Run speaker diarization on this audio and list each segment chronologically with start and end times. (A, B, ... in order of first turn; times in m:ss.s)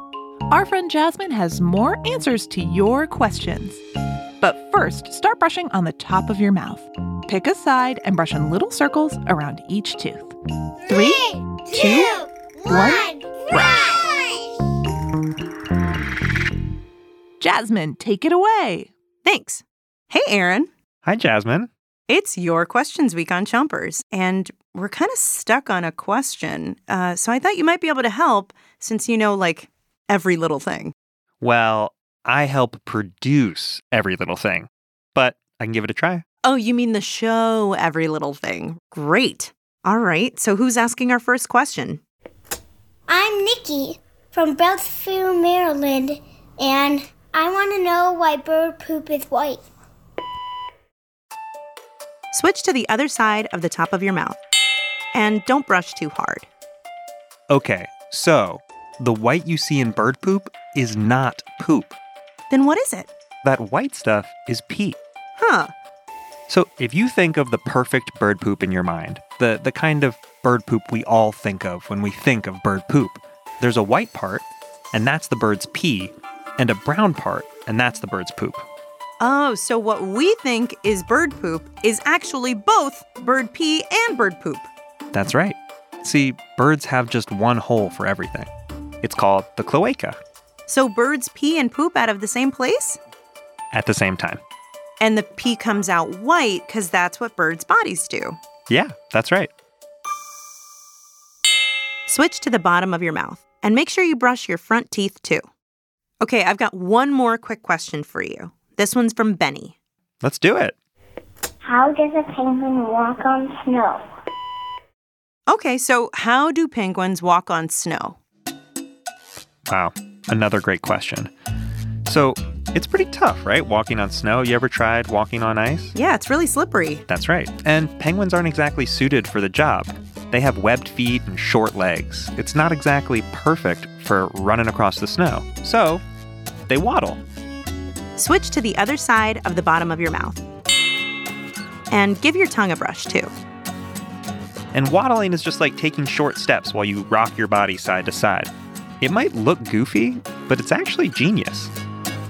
0:00.5-0:03.8 A
0:04.4-0:14.0 A
0:17.4-0:18.9 A
0:19.2-0:20.7 B
0:21.0-0:21.7 C
0:22.1-0:30.9 B
0:31.4-0:36.2 C
0:36.4-0:42.0 B
0:43.1-0:49.6 D
0:52.3-0:54.4 B
0:55.1-0:56.5 B
0:57.5-1:02.0 C
1:02.5-1:03.1 B
1:03.4-1:05.0 C
1:05.4-1:05.7 B
1:06.5-1:18.6 C
1:19.2-1:24.7 B
1:25.1-1:28.5 C
1:29.0-1:30.2 C
1:30.7-1:33.0 B
1:33.7-1:34.4 C
1:35.0-1:38.4 B
1:38.7-1:39.5 C
1:42.1-1:45.4 B
1:46.2-1:49.7 B
1:50.2-1:50.8 C
1:51.6-1:54.0 D
1:55.5-1:58.2 B
1:59.7-2:01.3 C
2:02.0-2:05.9 C
2:05.9-2:07.0 B
2:07.1-2:16.0 C
2:16.7-2:17.2 C
2:18.2-2:20.4 B
2:21.9-2:23.3 B
2:24.7-2:31.7 C